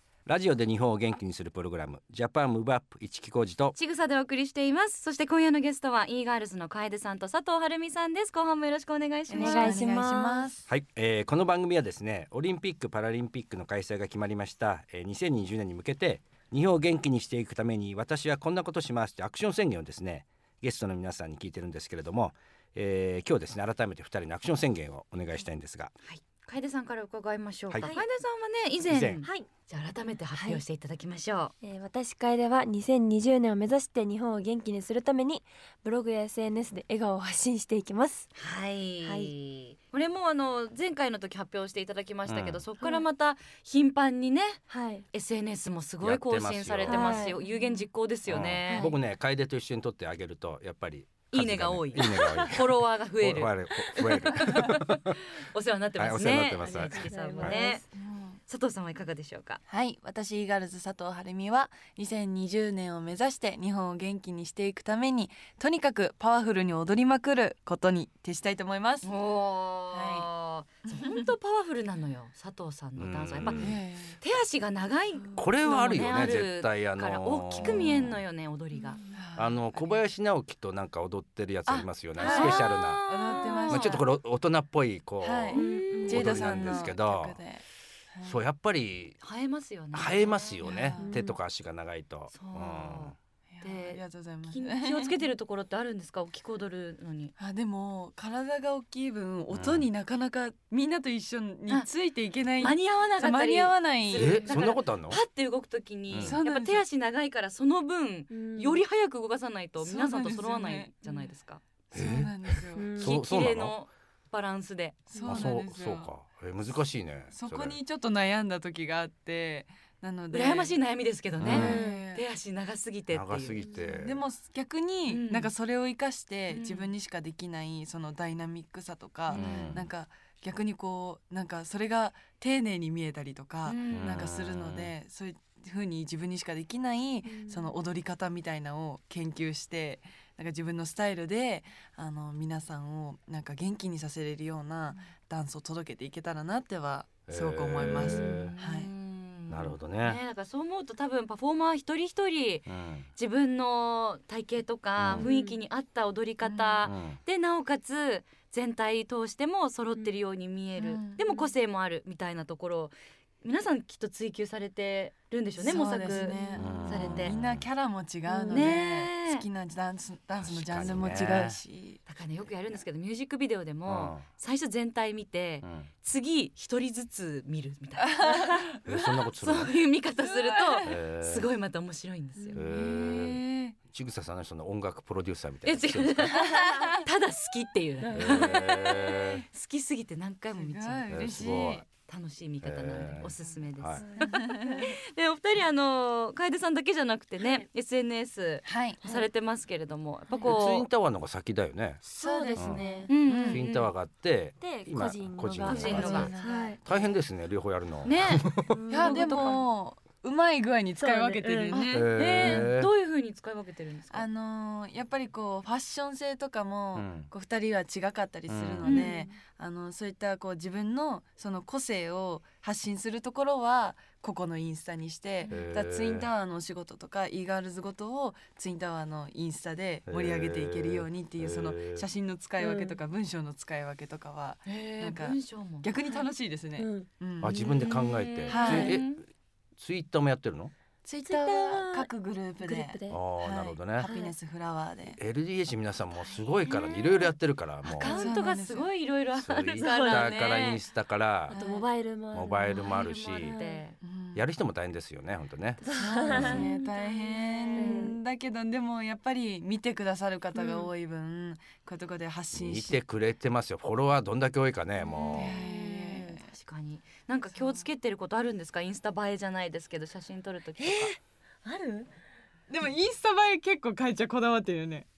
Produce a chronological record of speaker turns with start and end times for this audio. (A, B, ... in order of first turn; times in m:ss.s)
0:00.3-0:03.8 A
0:03.8-0:09.8 B
0:09.3-0:10.7 C
0:09.3-0:10.5 D
0:10.7-0:25.9 A
0:26.0-0:31.5 B
0:27.8-0:28.1 D
0:28.9-0:29.2 A
0:29.2-0:29.5 D
0:30.3-0:30.6 D
0:31.6-0:38.3 D
0:38.4-0:48.9 B
0:39.0-0:39.3 D
0:42.3-0:42.6 A
0:42.8-0:43.0 D
0:44.7-0:45.0 D
0:46.0-0:47.3 A
0:46.9-0:47.8 D
0:48.3-0:55.2 A
0:48.7-0:49.0 D
0:51.3-0:57.8 B
0:56.0-0:57.6 A
0:56.6-0:57.8 D
0:58.0-0:58.4 C
0:58.5-0:59.6 B
0:59.7-1:09.1 C
1:09.0-1:19.0 B
1:09.9-1:10.3 C
1:10.9-1:11.3 C
1:13.0-1:13.8 A
1:13.4-1:14.2 C
1:15.2-1:16.1 C
1:15.4-1:18.2 A
1:17.6-1:17.9 C
1:19.1-1:20.0 C
1:19.4-1:23.0 A
1:21.7-1:24.0 C
1:22.2-1:24.0 B
1:23.7-1:27.4 A
1:25.2-1:28.4 C
1:25.5-1:26.9 B
1:25.6-1:26.3 D
1:28.2-1:29.2 A
1:29.2-1:30.9 B
1:29.9-1:33.2 A
1:30.6-1:31.2 C
1:31.0-1:31.4 D
1:32.3-1:37.3 B
1:33.5-1:35.2 C
1:37.4-1:44.5 C
1:39.5-1:39.9 A
1:42.6-1:51.6 B
1:44.1-1:45.2 A
1:46.1-1:46.4 A
1:46.2-1:46.8 C
1:48.3-1:48.8 D
1:49.8-1:51.3 C
1:51.9-1:52.9 C
1:51.9-1:53.8 A
1:52.8-1:53.2 D
1:53.0-1:55.2 B
1:55.1-1:56.1 C
1:55.2-1:55.4 D
1:55.2-1:57.8 A
1:57.3-2:00.8 C
2:00.3-2:03.6 B
2:01.4-2:01.8 A
2:01.4-2:02.2 C
2:01.5-2:02.1 D
2:03.1-2:04.2 A
2:03.7-2:04.0 D
2:04.0-2:28.9 C
2:05.1-2:05.5 B
2:06.5-2:06.9 B
2:09.3-2:09.8 B
2:09.3-2:09.9 A
2:13.6-2:14.3 B
2:13.9-2:14.9 A
2:17.3-2:17.8 D
2:27.3-2:28.5 A
2:27.8-2:47.4 B
2:29.5-2:30.2 A
2:32.7-2:33.1 A
2:35.0-2:35.3 A
2:35.2-2:35.6 D
2:36.4-2:36.9 C
2:36.8-2:37.2 A
2:40.8-2:41.5 C
2:45.6-2:52.0 C
2:46.2-2:46.7 D
2:46.6-2:47.7 A
2:48.3-2:48.7 D
2:48.5-2:49.5 B
2:50.4-2:51.6 A
2:52.1-2:58.7 B
2:53.9-2:54.2 A
2:55.6-2:55.9 A
2:58.1-2:58.8 C
2:58.8-2:59.7 A
2:59.4-3:02.7 B
3:00.3-3:00.9 C
3:00.8-3:01.5 A
3:02.4-3:02.6 D
3:02.5-3:06.5 A
3:02.7-3:03.8 C
3:05.6-3:20.9 B
3:06.4-3:07.0 C
3:08.0-3:08.5 D
3:08.1-3:09.4 A
3:09.2-3:09.4 C
3:10.5-3:11.8 C
3:11.1-3:11.9 A
3:12.6-3:14.0 A
3:14.0-3:14.9 D
3:14.2-3:14.9 C
3:18.6-3:19.2 C
3:20.4-3:22.0 A
3:22.0-3:23.1 D
3:22.2-3:23.6 C
3:22.6-3:22.8 A
3:23.1-3:23.9 B
3:23.5-3:28.8 A
3:24.6-3:26.8 D
3:25.6-3:26.3 B
3:25.7-3:27.1 C
3:28.0-3:29.7 B
3:28.7-3:29.6 D
3:28.9-3:32.7 C
3:31.0-3:31.8 D
3:31.7-3:34.3 B
3:31.9-3:32.9 A
3:34.1-3:57.6 C
3:37.0-3:37.3 A
3:38.5-3:38.9 A
3:38.8-3:39.2 B
3:38.9-3:39.4 D
3:45.5-3:46.3 A
3:50.1-3:52.1 A
3:52.6-3:53.0 D
3:54.7-3:55.9 B
3:56.1-3:57.1 D
3:57.4-3:59.2 A
3:57.5-3:59.2 B
3:58.5-3:59.0 C
3:59.8-4:00.7 A
4:01.0-4:05.2 C
4:01.2-4:02.1 D
4:02.6-4:03.2 D
4:03.1-4:04.1 A
4:04.0-4:04.3 D
4:05.2-4:08.2 A
4:06.6-4:07.3 B
4:07.8-4:10.8 B
4:08.0-4:08.9 C
4:09.4-4:11.6 A
4:09.8-4:10.4 D
4:11.5-4:13.8 D
4:11.5-4:11.9 C
4:12.3-4:13.6 A
4:12.7-4:14.0 B
4:14.0-4:14.5 C
4:14.3-4:16.6 A
4:15.8-4:16.7 D
4:15.9-4:23.0 C
4:16.3-4:18.1 B
4:17.7-4:18.2 D
4:22.5-4:25.6 A
4:25.0-4:31.1 B
4:25.3-4:26.4 C
4:27.6-4:27.8 C
4:30.8-4:32.1 D
4:32.7-4:35.1 C